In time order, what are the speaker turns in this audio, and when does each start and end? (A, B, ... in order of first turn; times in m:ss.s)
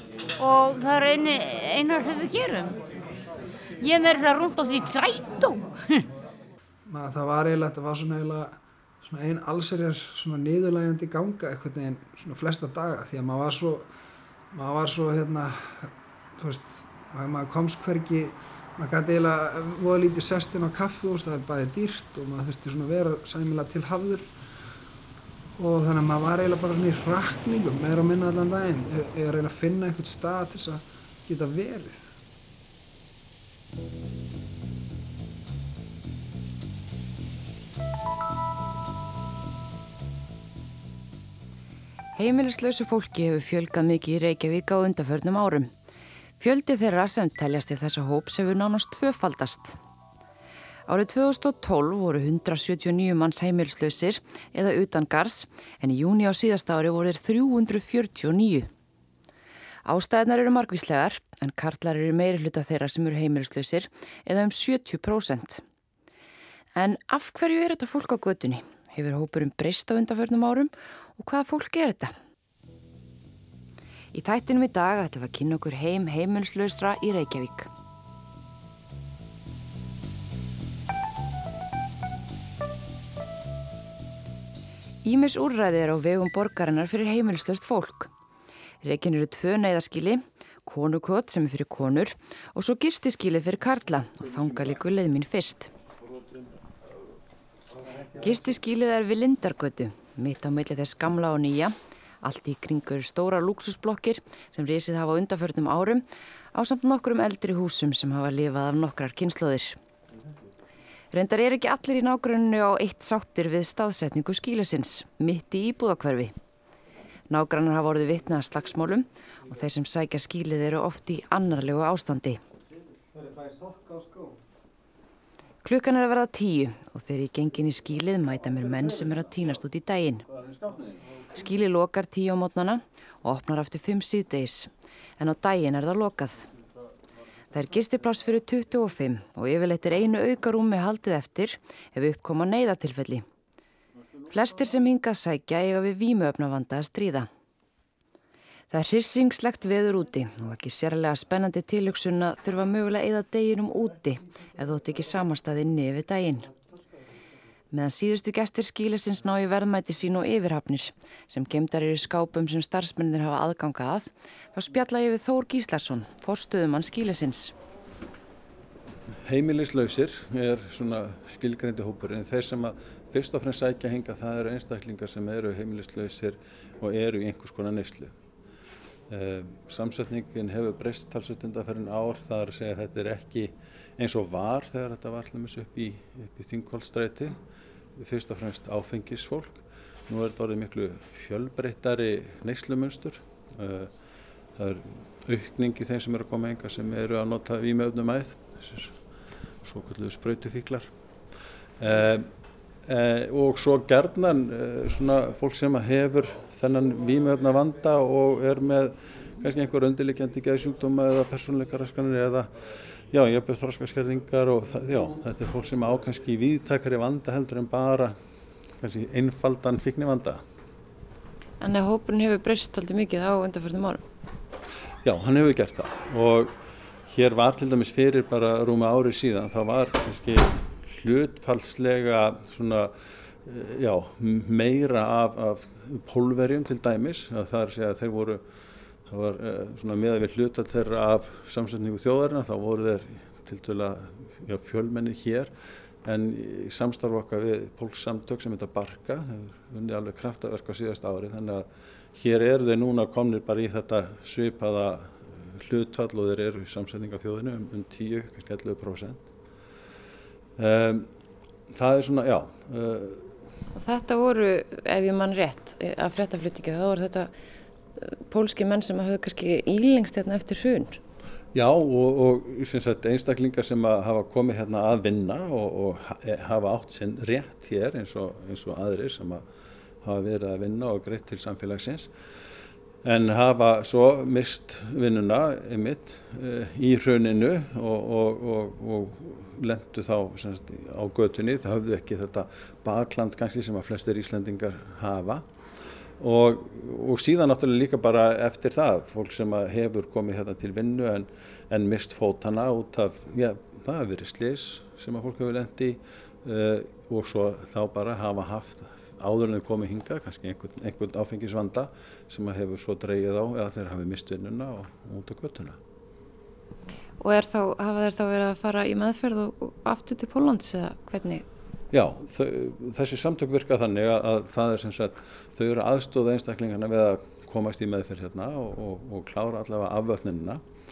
0:00.4-0:02.8 A
0:03.8-0:06.0 A
0:06.9-0:13.9 B
0:14.5-0:24.2 B
0:25.6-0:32.2 B
0:42.2-0:45.7 C
0:46.4-0:49.8 C
0:50.9-0:58.7 C
0:59.8-1:05.6 C
1:06.8-1:12.2 C
1:14.1-1:17.7 C
1:25.0-1:28.1 C
1:28.8-1:35.7 C
1:38.2-1:49.8 C
1:51.1-1:56.3 C
1:57.3-2:02.4 C
2:03.4-2:04.1 D
2:05.6-2:10.3 C
2:10.5-2:10.9 D
2:11.3-2:16.5 C
2:17.5-2:23.2 C
2:24.3-2:27.3 C
2:28.7-2:36.5 C
2:37.7-2:47.5 C
2:49.2-2:58.2 D
2:59.1-3:07.4 D
3:08.0-3:13.9 D
3:14.6-3:19.0 D
3:19.6-3:20.9 D
3:21.8-3:22.3 D
3:22.8-3:38.2 D
3:38.8-3:40.4 D
3:41.6-3:44.0 C
3:45.0-3:46.5 D
3:47.1-3:52.9 D
3:53.4-3:58.4 D
3:59.1-4:05.5 D
4:06.0-4:19.2 D
4:20.6-4:21.1 D
4:21.7-4:23.3 D
4:23.8-4:27.3 C
4:28.0-4:31.0 C
4:31.5-4:39.4 D
4:40.0-4:42.1 D
4:43.0-4:55.5 D
4:56.2-5:15.8 D
5:17.2-5:21.5 C
5:21.9-5:30.6 D